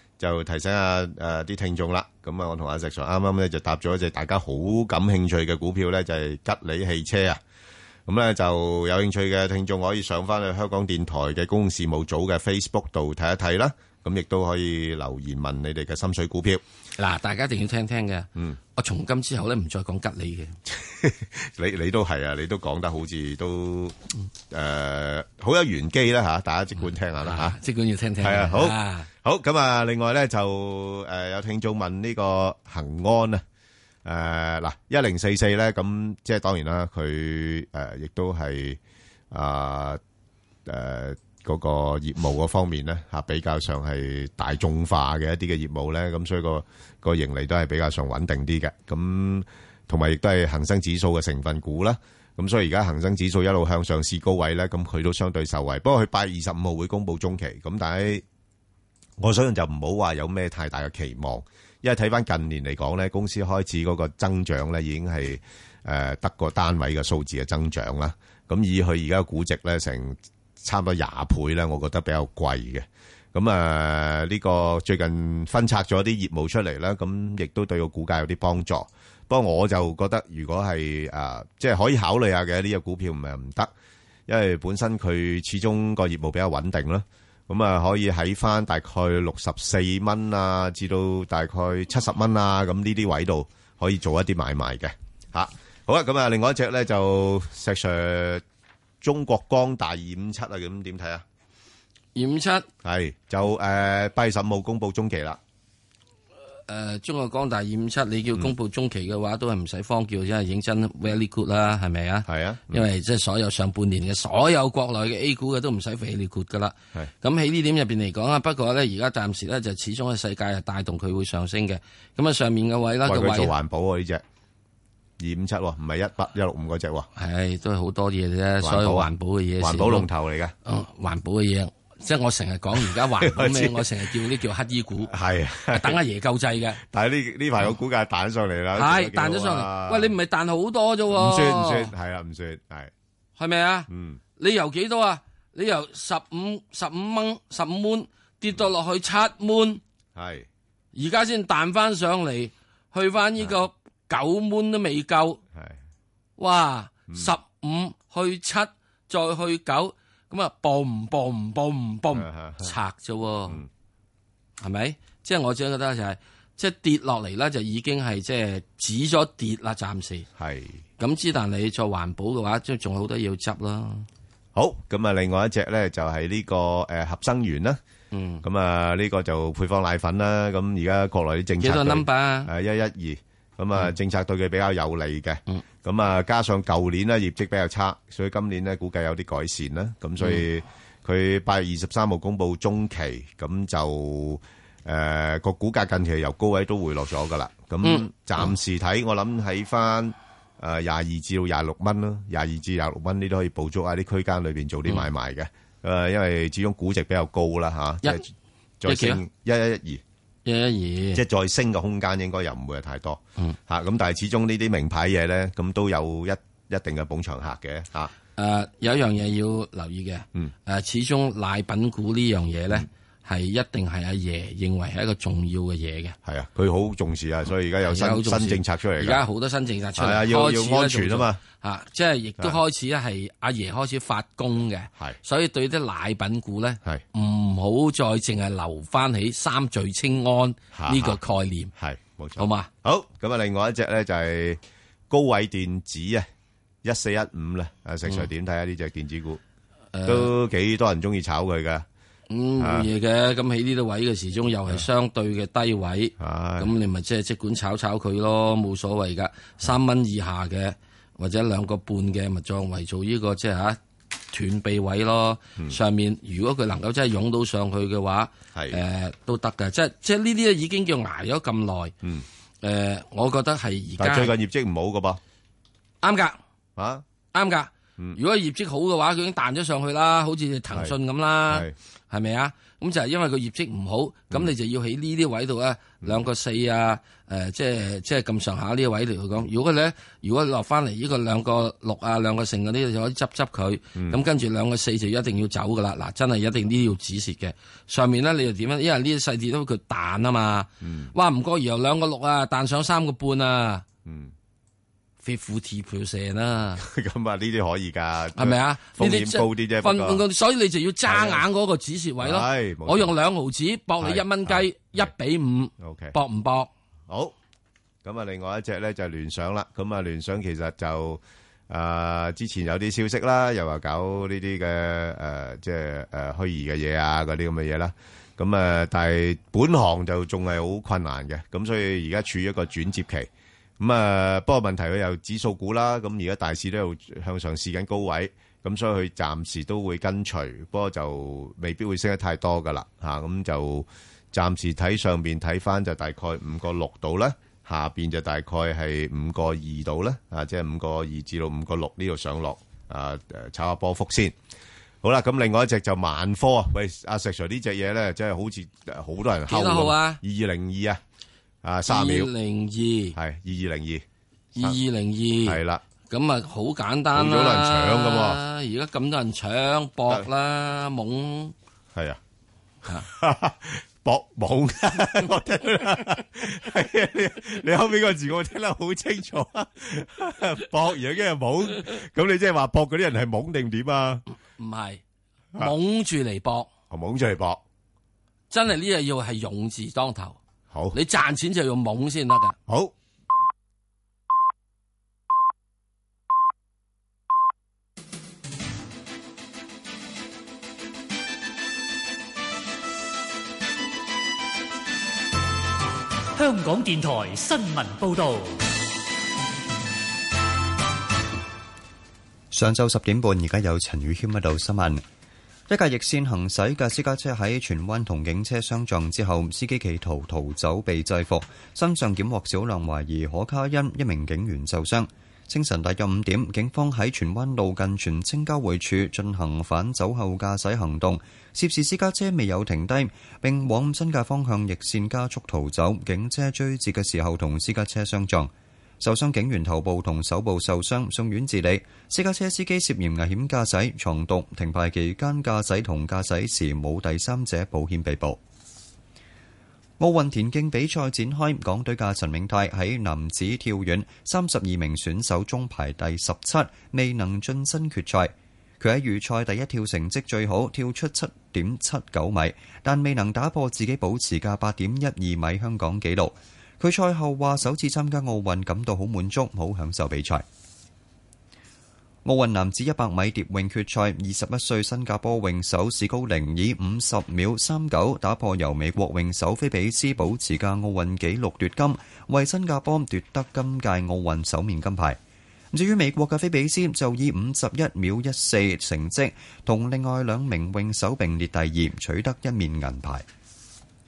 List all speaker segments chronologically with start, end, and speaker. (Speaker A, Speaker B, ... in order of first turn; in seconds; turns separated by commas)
Speaker A: 0.2-7.4, Speaker A: 8.1-16.6, Speaker B: 17.0-20.6, Speaker A: 20.7-23.9, Speaker A: 24.5-27.6, Speaker B: 26.9-29.1, Speaker A: 28.2-33.4, Speaker A: 34.0-38.8, Speaker A: 39.3-40.0, Speaker A: 40.7-58.2, Speaker A: 59.2-83.7, Speaker A: 84.3-98.4, Speaker A: 99.0-101.2, Speaker B: 102.2-102.7, Speaker A: 102.8-105.4, Speaker B: 106.7-123.5, Speaker A: 112.3-112.8, Speaker A: 123.0-124.2, Speaker A: 125.2-127.1, Speaker B: 127.2-130.1, Speaker A: 128.6-129.1, Speaker A: 129.6-130.5, Speaker B: 130.7-135.1, Speaker A: 133.2-133.8, Speaker A: 135.1-136.0, Speaker B: 135.7-136.8, Speaker A: 136.9-140.1, Speaker B: 138.8-141.9, Speaker A: 141.1-142.9, Speaker B: 143.4-149.8, Speaker A: 143.9-144.2, Speaker A: 150.2-150.5, Speaker B: 150.9-155.4, Speaker B: 156.4-163.6, Speaker A: 162.1-162.7, Speaker B: 164.6-170.3, Speaker A: 170.4-170.8, Speaker B: 171.0-174.1, Speaker A: 174.6-177.8, Speaker B: 178.1-178.4, Speaker A: 178.4-208.2, Speaker B: 181.6-182.5, Speaker B: 190.2-190.4, Speaker B: 197.8-198.6, Speaker A: 208.8-210.0, Speaker B: 208.9-209.2, Speaker B: 210.5-211.2, Speaker A: 211.2-218.1, Speaker B: 218.4-226.2, Speaker A: 226.2-229.2, Speaker B: 227.9-241.7, Speaker A: 230.0-231.4, Speaker A: 240.7-241.2, Speaker A: 241.8-244.6, Speaker B: 242.4-242.7, Speaker A: 245.1-246.3, Speaker A: 246.8-249.4, Speaker B: 249.9-250.3, Speaker A: 250.1-251.9, Speaker B: 252.3-263.8, Speaker A: 252.6-252.9, Speaker A: 256.2-256.7, Speaker B: 264.3-271.9, Speaker A: 268.6-268.8, Speaker B: 272.6-274.3, Speaker A: 274.0-275.2, Speaker B: 276.0-276.4, Speaker A: 276.8-277.0, Speaker B: 277.3-303.9, Speaker A: 293.9-294.2, Speaker A: 300.8-301.1, Speaker A: 304.1-304.3, Speaker B: 305.2-306.8, Speaker A: 306.8-310.2, Speaker B: 308.4-316.7, Speaker A: 311.1-311.4, Speaker A: 312.2-313.1, Speaker A: 314.0-315.1, Speaker A: 315.8-316.1, Speaker A: 317.1-317.3, Speaker A: 318.0-354.4, Speaker A: 355.0-361.0, Speaker B: 359.5-360.2, Speaker A: 361.6-362.3, Speaker B: 361.9-363.2, Speaker A: 363.1-364.0, Speaker B: 364.6-371.5, Speaker A: 365.4-365.8, Speaker A: 367.1-368.4, Speaker A: 372.9-384.2, Speaker B: 384.6-385.0, Speaker B: 385.6-386.7, Speaker A: 386.9-387.6, Speaker B: 388.5-390.4, Speaker A: 390.7-391.0, Speaker B: 390.9-392.6, Speaker A: 392.7-392.9, Speaker C: 406.4-408.6, Speaker D: 412.5-415.0, Speaker D: 415.7-448.4, Speaker D: 450.0-470.4, Speaker D: 472.2-485.2, Speaker D: 485.7-493.2